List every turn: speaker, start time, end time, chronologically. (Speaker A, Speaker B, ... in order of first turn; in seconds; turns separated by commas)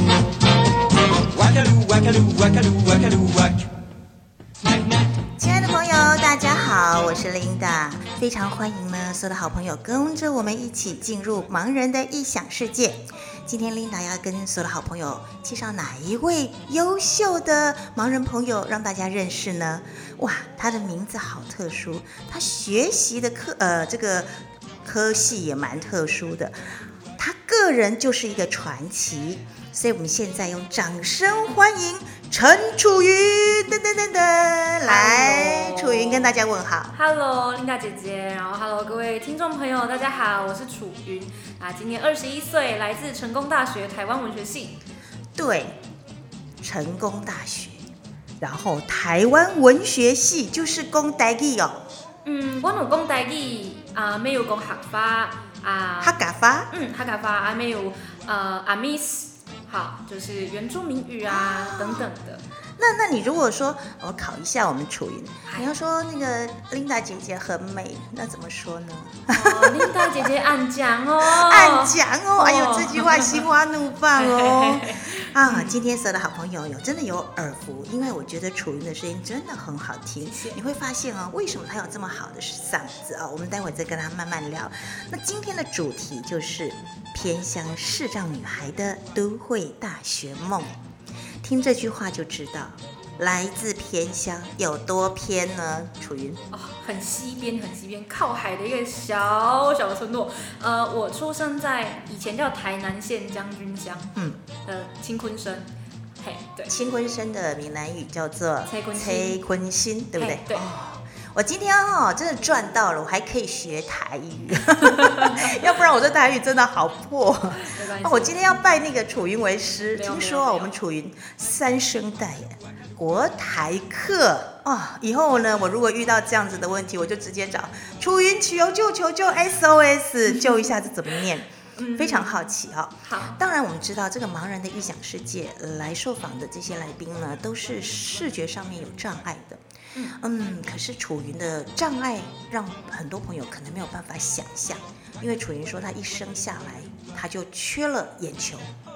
Speaker A: 1.2-3.7, Speaker A: 4.6-5.1, Speaker B: 5.4-24.3, Speaker B: 24.8-26.6, Speaker B: 27.2-36.9, Speaker C: 34.8-36.4, Speaker C: 36.9-44.8, Speaker B: 45.4-45.8, Speaker B: 46.6-47.9, Speaker B: 48.4-51.8, Speaker C: 52.2-56.2, Speaker B: 56.0-56.7, Speaker C: 56.7-62.4, Speaker B: 61.3-62.1, Speaker B: 62.8-70.2, Speaker C: 69.3-73.4, Speaker B: 71.2-90.7, Speaker C: 74.2-75.8, Speaker C: 80.2-80.6, Speaker B: 91.4-96.4, Speaker C: 96.5-104.1, Speaker B: 104.1-104.4, Speaker C: 104.6-105.7, Speaker C: 106.2-106.7, Speaker B: 106.7-139.6, Speaker C: 108.7-109.4, Speaker C: 110.2-110.7, Speaker C: 114.9-115.5, Speaker C: 117.6-118.4, Speaker C: 120.0-120.8, Speaker C: 130.3-130.9, Speaker C: 131.8-132.3, Speaker C: 133.0-133.4, Speaker B: 140.1-148.7